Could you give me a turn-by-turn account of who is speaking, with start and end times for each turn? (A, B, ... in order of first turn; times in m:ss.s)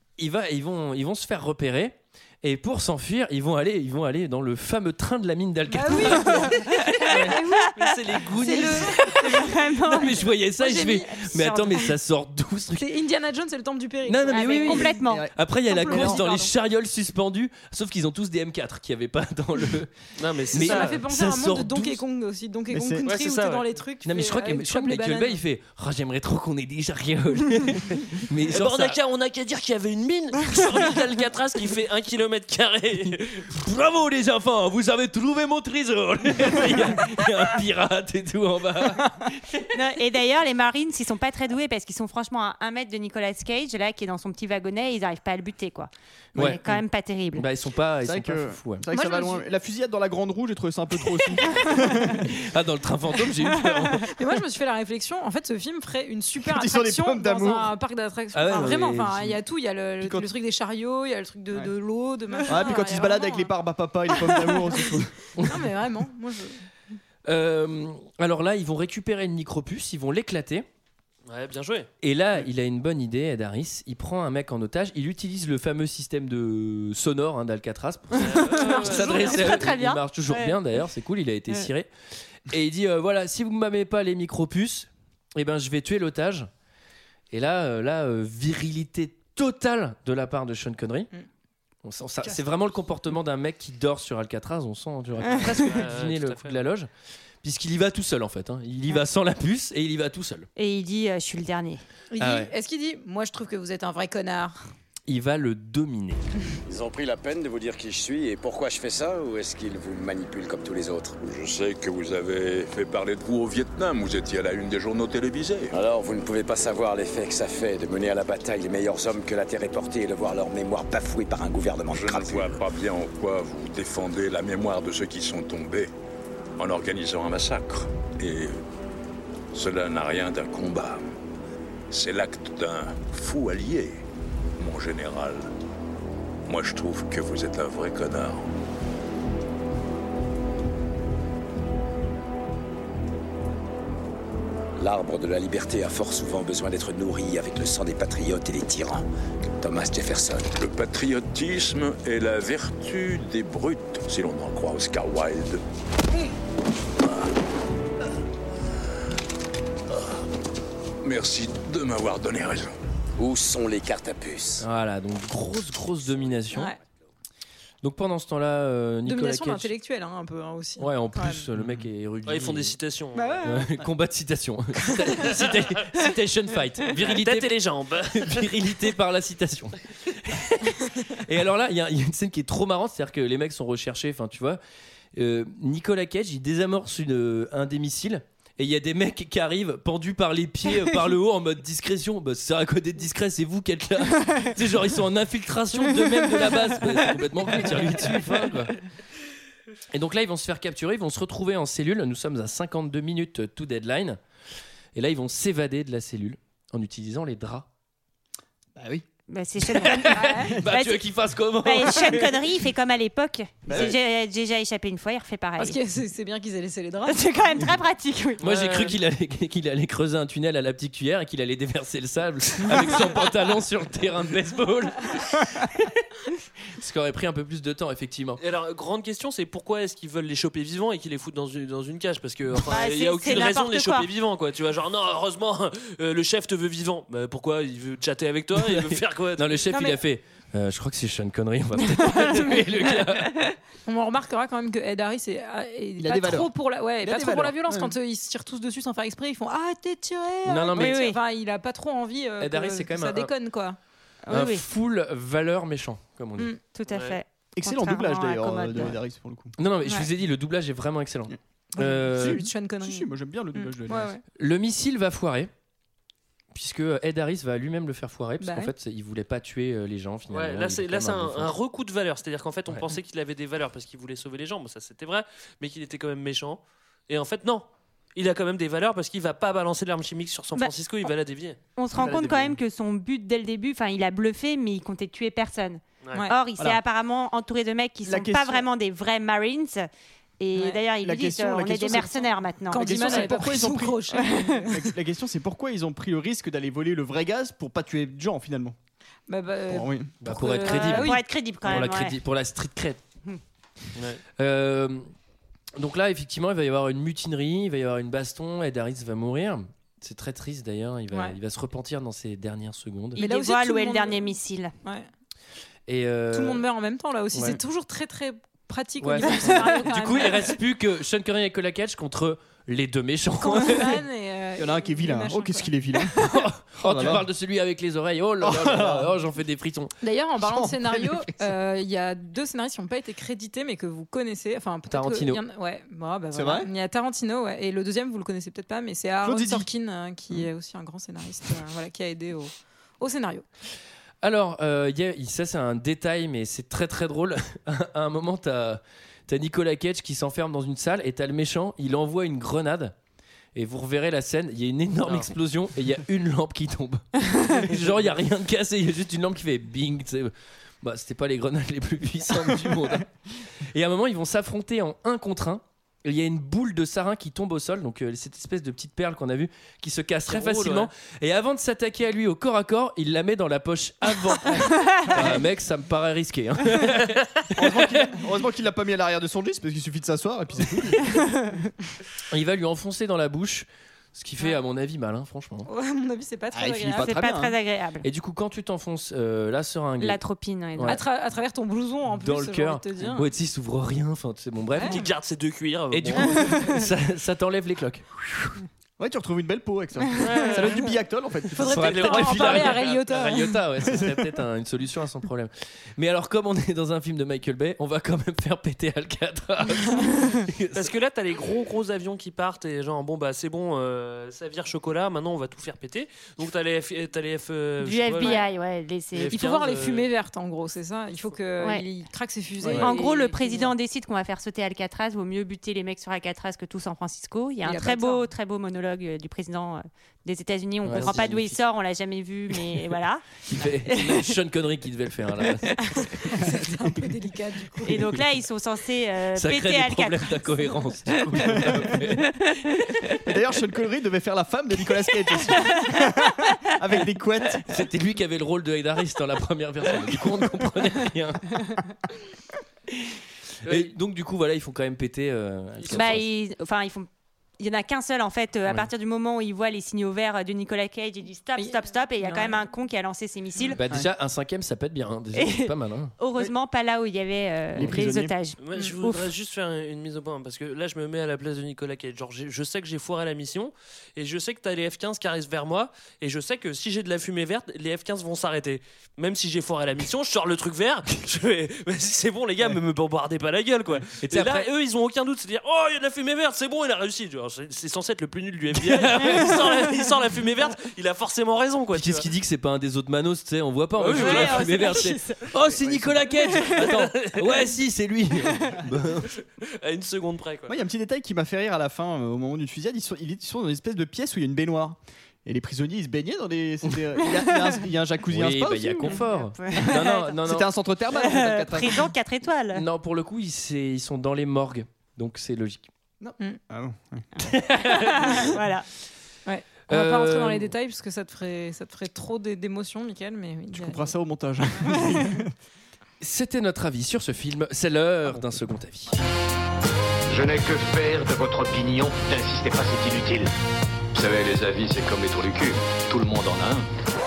0:00.2-0:07.4 A
0:05.7-0:07.7 B
0:07.8-0:08.9 C
0:08.3-0:12.9 A
0:08.3-0:09.5 B
0:09.0-0:10.2 D
0:10.6-0:11.9 B
0:12.8-0:15.0 B
0:14.1-0:19.9 A
0:14.3-0:15.3 D
0:15.0-0:16.2 E
0:15.7-0:16.5 B
0:15.9-0:16.2 D
0:20.2-0:21.0 C
0:20.5-0:22.0 A
0:20.6-0:25.4 B
0:22.7-0:23.1 E
0:23.0-0:23.7 C
0:24.0-0:29.0 A
0:28.5-0:33.5 C
0:33.5-0:39.6 A
0:39.7-0:47.5 D
0:46.4-0:46.8 A
0:46.4-0:46.7 E
0:47.4-0:48.8 A
0:48.0-0:52.3 E
0:48.9-0:49.4 B
0:51.7-0:52.0 B
0:52.1-0:54.1 A
0:53.9-1:03.5 B
0:56.4-0:57.7 E
0:58.3-0:59.4 A
1:00.0-1:00.3 E
1:02.5-1:05.2 E
1:04.1-1:06.6 B
1:07.3-1:10.7 A
1:11.3-1:11.9 C
1:12.0-1:21.9 A
1:18.2-1:19.6 C
1:18.5-1:20.6 D
1:22.5-1:26.5 A
1:27.3-1:31.1 A
1:31.8-1:36.9 A
1:35.4-1:36.6 C
1:37.4-1:40.5 A
1:40.6-1:41.8 D
1:42.1-1:44.6 B
1:42.2-1:42.5 A
1:45.1-1:46.2 A
1:46.7-1:51.2 F
1:51.2-1:55.8 G
1:55.7-2:02.6 F
2:01.9-2:05.9 G
2:06.6-2:08.6 G
2:09.5-2:11.0 G
2:11.9-2:14.0 G
2:14.6-2:15.5 G
2:16.5-2:18.5 G
2:24.8-2:29.0 F
2:29.6-2:30.5 F
2:30.6-2:35.6 G
2:41.0-2:42.7 G
2:43.2-2:44.6 F
2:44.6-2:46.7 A
2:46.5-2:46.8 B
2:47.8-2:49.7 A
2:49.0-2:51.5 B
2:50.8-2:52.8 A
2:52.3-2:53.5 C
2:53.2-2:53.8 B
2:53.4-2:57.6 A
2:55.2-2:55.6 C
2:56.9-2:58.8 C
2:58.1-3:04.6 A
3:05.2-3:18.8 A
3:19.9-3:24.2 A
3:24.9-3:27.7 A
3:28.8-3:29.0 E
3:29.3-3:31.0 D
3:29.7-3:32.4 A
3:30.1-3:30.6 B
3:31.6-3:35.8 D
3:33.7-3:34.0 E
3:35.6-3:37.2 B
3:37.1-3:38.4 D
3:38.4-3:46.0 A
3:38.4-3:39.0 C
3:42.6-3:43.0 C
3:46.8-3:48.4 A
3:48.4-3:59.6 C
3:52.6-3:54.1 D
3:58.6-4:03.4 A
4:03.9-4:13.8 B
4:06.0-4:07.9 E
4:10.4-4:11.0 A
4:10.8-4:11.2 D
4:12.4-4:13.3 A
4:14.3-4:14.6 D
4:14.3-4:16.5 A
4:16.7-4:19.0 D
4:16.9-4:17.2 C
4:17.6-4:19.5 E
4:19.6-4:22.5 A
4:21.7-4:24.2 B
4:22.1-4:24.2 E
4:24.4-4:25.5 A
4:26.5-4:31.6 A
4:28.4-4:28.7 B
4:30.3-4:41.6 C
4:41.8-4:49.9 D
4:41.9-4:42.6 E
4:48.0-4:48.7 E
4:50.4-4:53.3 D
4:51.0-4:58.8 E
4:52.7-4:54.9 B
4:54.2-4:54.6 D
4:59.3-5:01.2 B
4:59.7-5:00.1 E
5:00.2-5:03.0 A
5:00.5-5:02.2 D
5:04.0-5:04.2 C
5:04.4-5:05.1 A
5:05.8-5:13.2 A
5:11.1-5:11.4 B
5:13.2-5:14.7 D
5:13.2-5:14.3 B
5:15.9-5:16.6 A
5:16.3-5:20.6 B
5:17.3-5:17.6 A
5:19.0-5:24.0 A
5:23.4-5:26.0 B
5:24.6-5:26.2 E
5:26.2-5:29.9 A
5:26.8-5:27.2 E
5:28.4-5:29.1 E
5:30.0-5:43.4 B
5:30.4-5:31.5 E
5:34.9-5:35.4 A
5:36.3-5:36.7 E
5:39.2-5:39.7 E
5:44.2-5:52.9 A
5:53.6-6:03.1 A
6:03.7-6:17.6 A
6:10.3-6:10.9 C
6:17.6-6:21.5 E
6:22.3-6:25.7 A
6:25.7-6:27.2 B
6:26.5-6:27.6 E
6:27.0-6:28.1 D
6:28.0-6:30.2 A
6:30.0-6:31.0 D
6:30.8-6:33.3 B
6:32.2-6:35.0 A
6:34.8-6:36.8 C
6:35.9-6:38.5 A
6:36.4-6:36.9 B
6:39.0-6:42.0 E
6:40.2-6:40.8 C
6:40.3-6:40.8 B
6:41.6-6:43.6 B
6:41.7-6:50.9 A
6:41.7-6:43.0 C
6:50.7-6:58.4 C
6:57.8-6:59.4 D
6:59.1-7:00.1 C
6:59.3-7:03.7 B
7:01.6-7:01.9 D
7:02.8-7:13.3 D
7:07.6-7:08.2 B
7:10.8-7:11.6 A
7:13.5-7:16.4 A
7:13.9-7:14.2 D
7:16.0-7:18.0 B
7:17.8-7:20.7 D
7:19.4-7:22.8 A
7:23.2-7:27.7 E
7:27.7-7:31.6 A
7:33.6-7:36.3 A
7:35.9-7:43.8 D
7:41.6-7:42.6 B
7:43.7-7:46.1 A
7:45.3-7:49.3 D
7:47.8-7:48.4 E
7:48.6-8:12.3 C
8:04.2-8:04.7 A
8:11.9-8:19.3 A
8:14.0-8:15.1 C
8:14.2-8:15.5 D
8:15.8-8:16.3 E
8:16.5-8:17.5 C
8:19.8-8:20.8 C
8:20.7-8:32.1 E
8:28.3-8:30.7 A
8:29.1-8:30.4 D
8:31.1-8:32.8 D
8:32.7-8:35.9 A
8:36.2-8:37.3 E
8:37.4-8:38.4 A
8:37.7-8:38.9 D
8:39.5-8:44.1 B
8:39.9-8:40.7 A
8:43.7-8:45.5 E
8:44.8-8:45.4 B
8:46.2-8:49.2 A
8:50.3-8:53.5 H
8:54.2-8:56.9 H